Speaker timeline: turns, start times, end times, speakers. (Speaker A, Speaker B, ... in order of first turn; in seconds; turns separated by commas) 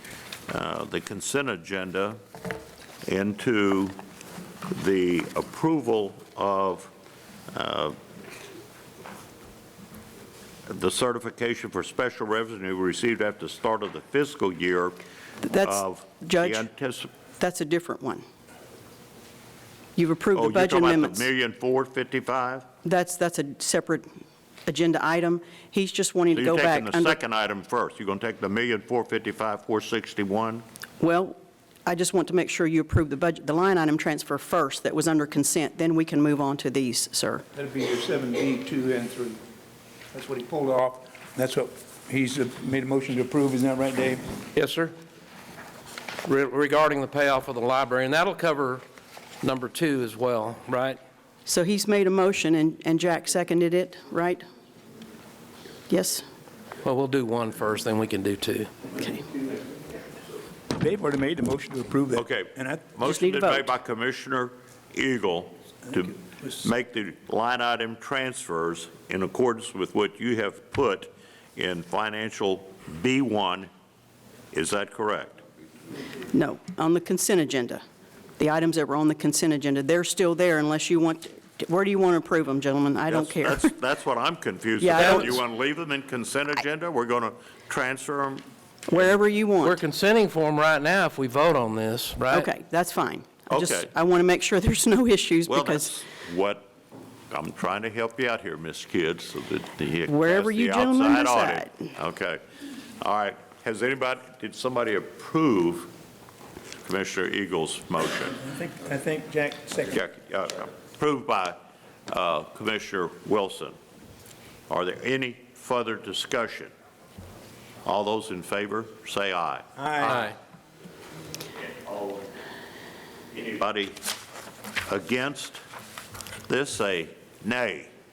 Speaker A: 0.5-2.2, Speaker A: 3.1-4.0, Speaker A: 4.7-6.9, Speaker A: 7.5-8.0, Speaker A: 10.7-15.0, Speaker B: 15.4-16.6, Speaker A: 15.6-17.1, Speaker B: 17.4-18.2, Speaker B: 19.9-21.2, Speaker A: 20.3-22.6, Speaker B: 22.8-24.1, Speaker B: 24.6-27.1, Speaker A: 26.3-30.6, Speaker B: 31.0-37.4, Speaker C: 37.5-39.4, Speaker C: 40.1-44.3, Speaker D: 44.5-44.9, Speaker D: 46.2-48.8, Speaker D: 49.4-51.0, Speaker B: 51.5-54.4, Speaker B: 55.9-56.2, Speaker D: 56.8-58.7, Speaker B: 59.0-59.2, Speaker C: 60.7-62.9, Speaker A: 62.1-73.7, Speaker B: 63.0-63.7, Speaker A: 74.5-75.4, Speaker B: 76.3-77.8, Speaker B: 78.4-83.7, Speaker A: 83.1-88.4, Speaker B: 84.8-85.4, Speaker D: 85.0-85.2, Speaker B: 88.9-89.8, Speaker D: 89.6-92.5, Speaker B: 92.3-95.9, Speaker A: 93.5-93.9, Speaker A: 95.5-96.7, Speaker A: 97.3-102.4, Speaker B: 100.1-101.9, Speaker A: 103.0-105.9, Speaker A: 106.8-108.5, Speaker C: 108.5-110.0, Speaker A: 109.9-113.8, Speaker A: 114.7-116.7, Speaker A: 117.8-119.7, Speaker C: 119.8-120.3, Speaker D: 120.0-120.3, Speaker A: 121.8-122.2, Speaker A: 123.3-124.0, Speaker A: 124.9-125.6, Speaker A: 126.5-127.9